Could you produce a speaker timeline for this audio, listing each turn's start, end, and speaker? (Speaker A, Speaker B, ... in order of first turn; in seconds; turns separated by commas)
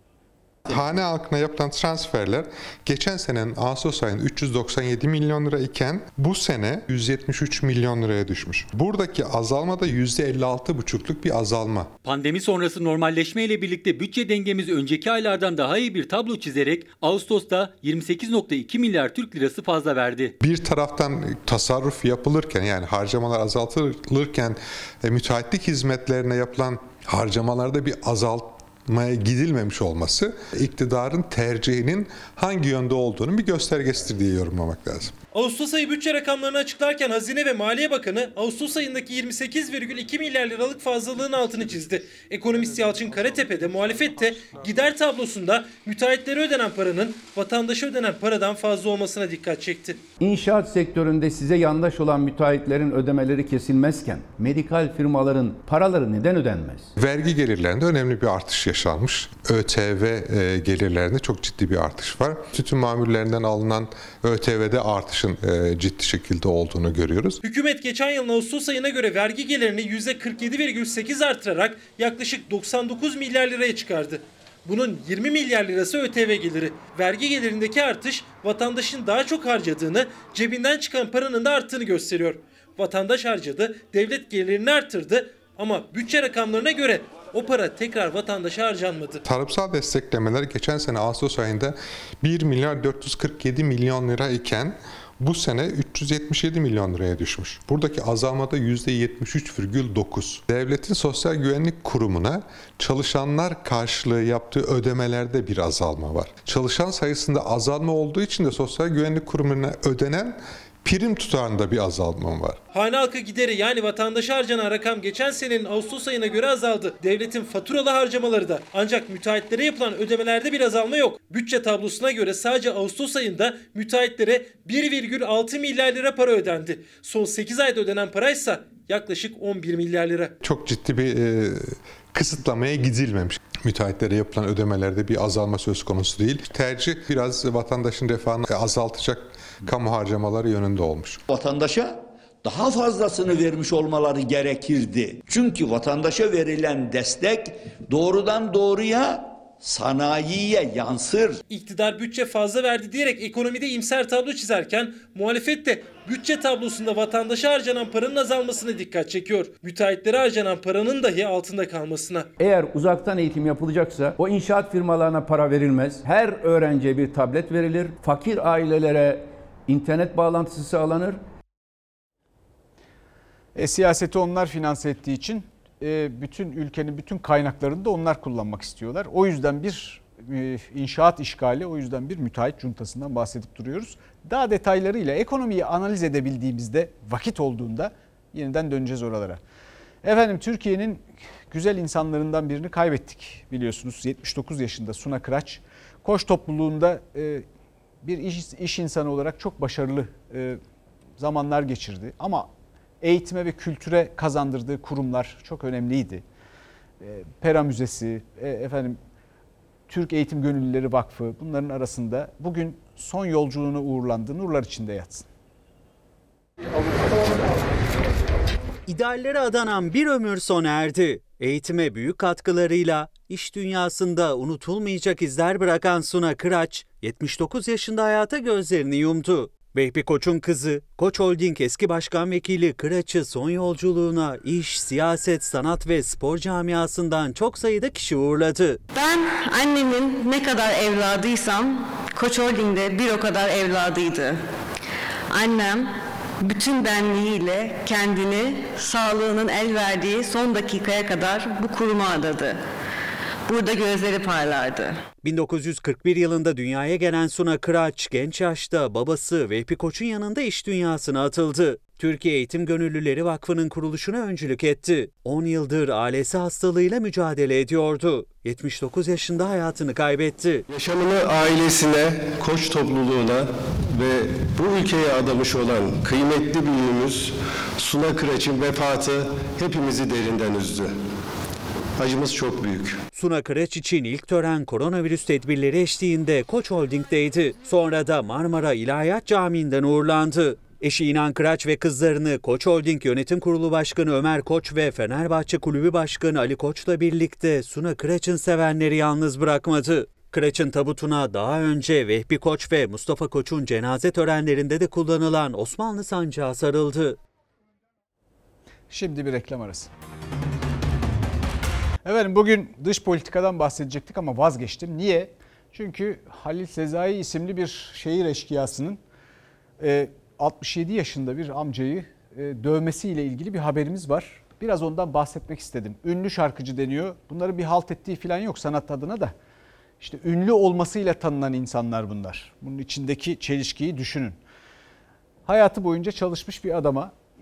Speaker A: 0.7-11.9, Speaker B: 12.0-20.4, Speaker A: 20.4-35.1, Speaker C: 35.3-50.0, Speaker D: 50.2-56.9, Speaker A: 57.0-67.4, Speaker C: 67.4-89.2, Speaker A: 89.2-112.6, Speaker C: 112.7-130.3, Speaker A: 130.4-141.2, Speaker E: 141.3-151.4, Speaker C: 151.5-162.3, Speaker D: 162.4-171.2, Speaker F: 173.6-189.4, Speaker F: 190.0-197.4, Speaker F: 198.0-200.6, Speaker F: 201.2-202.5, Speaker F: 203.0-206.2, Speaker F: 207.0-209.0, Speaker F: 209.9-215.3, Speaker G: 218.9-238.8, Speaker H: 238.9-244.4, Speaker H: 245.3-252.6, Speaker H: 253.5-255.0, Speaker G: 255.2-270.6, Speaker I: 270.7-281.0, Speaker I: 282.0-283.0, Speaker G: 283.1-307.2, Speaker F: 308.9-309.9, Speaker F: 312.1-319.0, Speaker F: 319.8-329.3, Speaker F: 330.0-334.4, Speaker F: 335.5-337.1